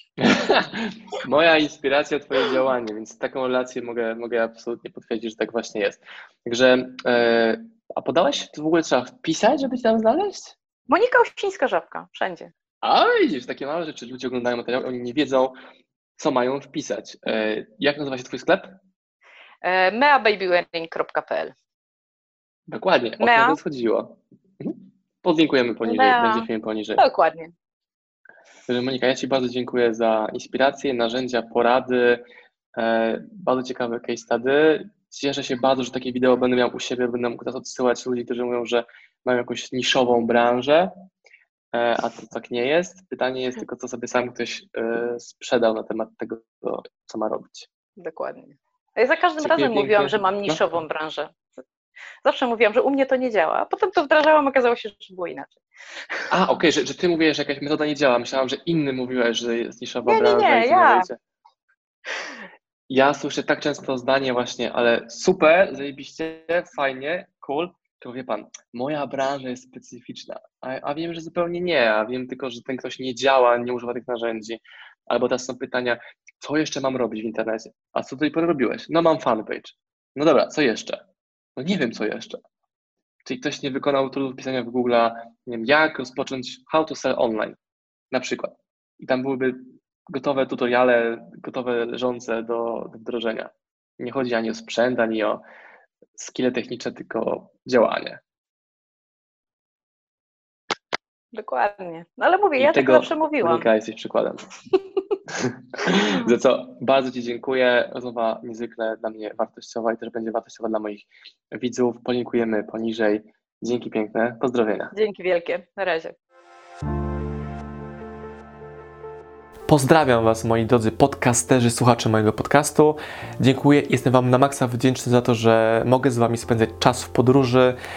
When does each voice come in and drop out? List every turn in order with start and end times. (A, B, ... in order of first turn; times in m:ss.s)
0:00.2-0:10.6 A
0:10.9-0:12.5 B
0:12.8-0:15.5 A
0:16.2-0:18.8 A
0:19.6-0:21.5 B
0:22.7-0:27.0 A
0:23.2-0:23.6 B
0:25.8-0:27.5 B
0:28.7-0:32.2 A
0:32.8-0:40.9 A
0:41.7-0:47.7 A
0:48.0-0:51.6 B
0:49.4-0:50.6 A
0:52.2-0:55.6 B
0:56.3-1:01.2 A
1:00.1-1:01.1 B
1:02.9-1:21.0 A
1:21.6-1:22.4 A
1:23.2-1:27.6 A
1:28.1-1:35.4 A
1:36.2-1:38.2 A
1:41.3-1:43.7 B
1:42.6-1:44.5 A
1:45.3-1:54.9 A
1:54.9-1:56.2 B
1:59.7-2:07.8 C